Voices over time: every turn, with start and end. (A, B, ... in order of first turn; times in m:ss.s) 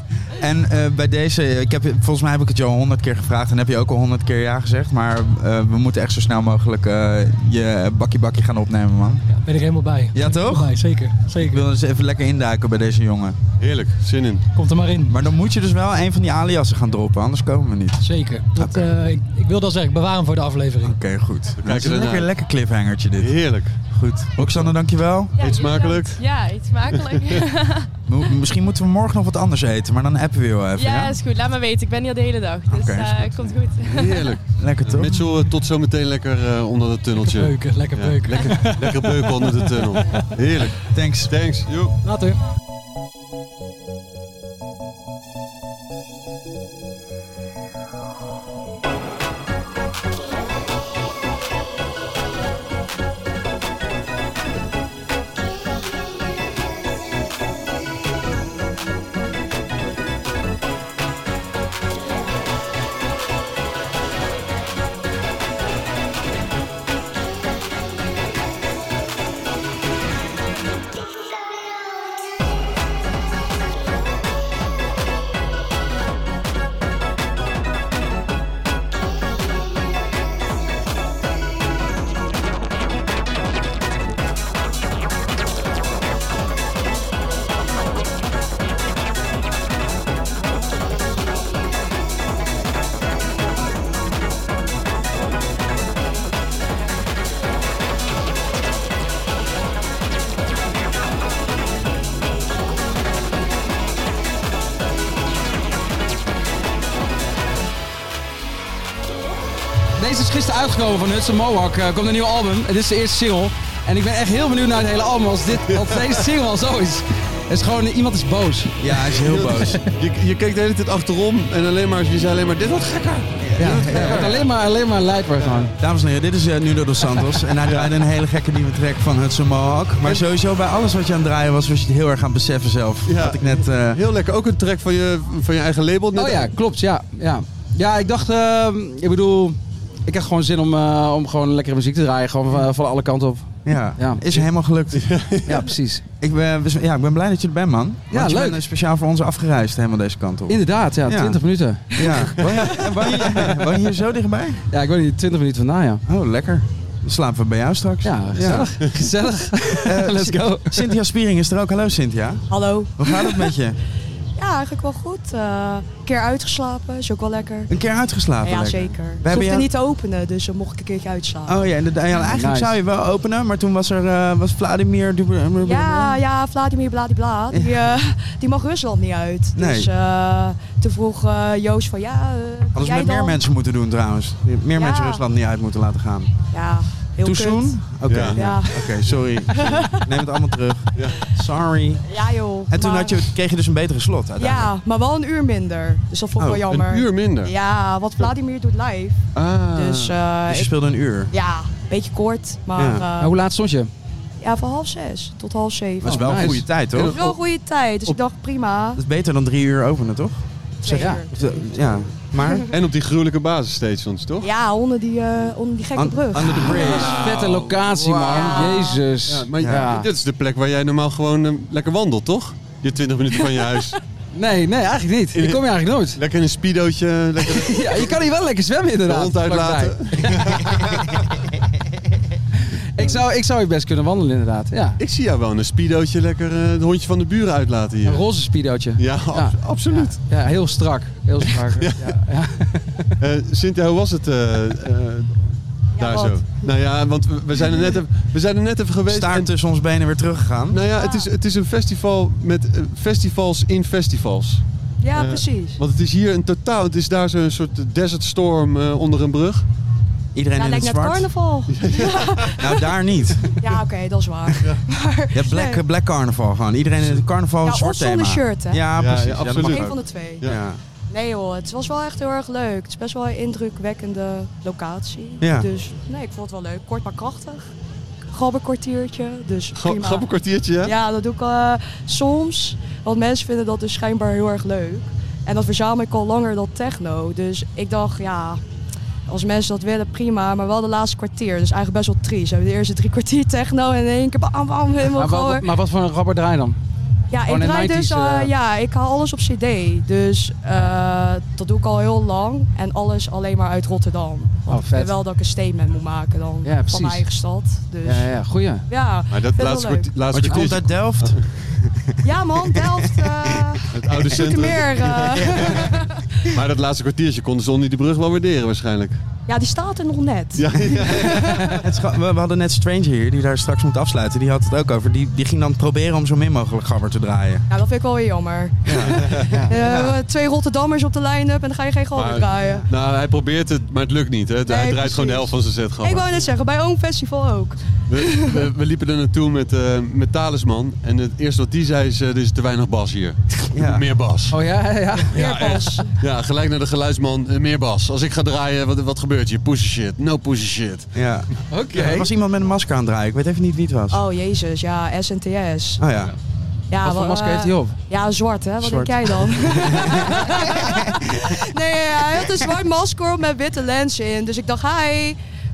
0:00.3-0:09.3 A
0:09.3-0:11.6 B
0:10.1-0:13.4 A
0:13.6-0:14.4 C
0:14.5-0:15.2 B
0:15.1-0:18.9 A
0:18.0-0:21.0 B
0:20.8-0:25.3 A
0:21.6-0:22.3 C
0:23.2-0:23.8 C
0:24.4-0:24.7 C
0:25.4-0:27.9 D
0:25.4-0:26.2 C
0:26.9-0:27.4 C
0:28.1-0:31.2 A
0:30.7-0:34.3 D
0:32.7-0:33.6 A
0:33.8-0:41.9 C
0:34.6-0:35.2 A
0:37.2-0:40.3 B
0:40.9-0:41.3 A
0:42.0-0:42.4 B
1:50.0-1:58.8 E
1:55.7-1:56.2 C
1:58.8-1:59.8 A
1:59.2-2:04.5 C
2:03.4-2:04.3 A
2:03.6-2:05.7 E
2:05.4-2:05.7 C
2:05.8-2:14.0 A
2:13.0-2:16.5 C
2:16.1-2:24.2 E
2:23.6-2:25.4 A
2:24.3-2:25.7 C
2:25.4-2:26.0 E
2:26.2-2:34.6 A
2:28.1-2:28.6 E
2:30.5-2:32.5 E
2:32.4-2:32.7 C
2:33.1-2:33.5 E
2:34.7-2:36.0 E
2:36.0-2:38.7 A
2:38.0-2:40.8 E
2:39.8-2:42.4 A
2:42.5-2:43.4 F
2:43.0-2:43.8 A
2:44.4-2:47.7 F
2:47.7-2:49.7 A
2:48.4-2:51.6 F
2:51.4-2:56.2 A
2:52.2-2:52.8 E
2:55.6-3:03.4 F
2:57.5-2:57.8 A
2:59.5-2:59.9 A
3:02.7-3:06.3 A
3:04.7-3:05.2 F
3:06.5-3:09.0 F
3:07.2-3:12.1 A
3:08.0-3:08.4 C
3:09.5-3:10.0 F
3:12.0-3:13.3 F
3:12.7-3:14.7 A
3:14.4-3:20.7 F
3:16.4-3:16.6 A
3:16.5-3:17.5 C
3:19.3-3:20.2 C
3:20.5-3:21.3 A
3:21.3-3:23.3 F
3:22.7-3:23.0 A
3:23.2-3:23.9 E
3:24.4-3:26.5 F
3:26.0-3:27.2 A
3:26.2-3:26.6 E
3:26.3-3:27.4 C
3:27.0-3:29.0 F
3:29.0-3:30.4 A
3:30.8-3:31.3 F
3:30.8-3:31.2 E
3:31.3-3:32.7 A
3:32.7-3:34.5 C
3:34.4-3:37.1 F
3:36.0-3:37.2 A
3:36.6-3:44.0 C
3:37.0-3:40.1 E
3:38.3-3:39.0 F
3:39.6-3:39.9 A
3:44.3-3:46.2 E
3:45.3-3:48.2 C
3:47.4-3:51.0 E
3:49.0-3:51.2 C
3:53.0-3:55.0 E
3:55.0-3:58.4 C
3:58.0-4:03.1 E
3:59.0-4:00.2 C
4:01.4-4:02.1 C
4:03.2-4:09.5 C
4:05.9-4:06.6 F
4:07.6-4:07.9 F
4:09.1-4:10.8 A
4:10.7-4:14.6 C
4:10.9-4:11.3 F
4:15.0-4:15.8 F
4:15.1-4:19.6 C
4:20.3-4:21.3 A
4:20.5-4:22.9 F
4:21.7-4:22.6 C
4:22.4-4:23.6 A
4:23.6-4:25.8 F
4:25.3-4:30.8 A
4:27.6-4:28.9 F
4:29.0-4:30.6 C
4:29.6-4:30.5 F
4:31.1-4:37.7 F
4:35.4-4:35.7 A
4:38.3-4:40.3 F
4:39.7-4:40.9 C
4:40.8-4:48.6 F
4:49.3-4:55.7 F
4:55.1-4:56.8 E
4:57.3-5:10.1 F
4:57.5-4:58.5 E
5:04.7-5:05.2 E
5:06.6-5:07.3 E
5:08.0-5:08.9 E
5:09.3-5:11.3 C
5:10.3-5:13.8 A
5:12.2-5:16.5 F
5:13.9-5:15.9 C
5:15.5-5:15.9 A
5:16.5-5:19.2 C
5:19.5-5:21.8 F
5:20.5-5:21.8 C
5:21.8-5:27.6 A
5:27.7-5:32.9 F
5:28.8-5:30.2 A
5:29.0-5:29.6 C
5:32.1-5:36.3 C
5:34.7-5:38.6 F
5:38.1-5:44.6 C
5:43.7-5:44.0 A
5:44.5-5:45.4 E
5:45.3-5:51.1 C
5:45.3-5:46.1 F
5:51.1-5:54.2 A
5:51.7-5:52.3 E
5:54.1-5:56.1 F
5:56.0-5:56.3 A
5:56.9-6:05.4 F
5:57.0-5:58.0 E
5:58.8-6:01.2 A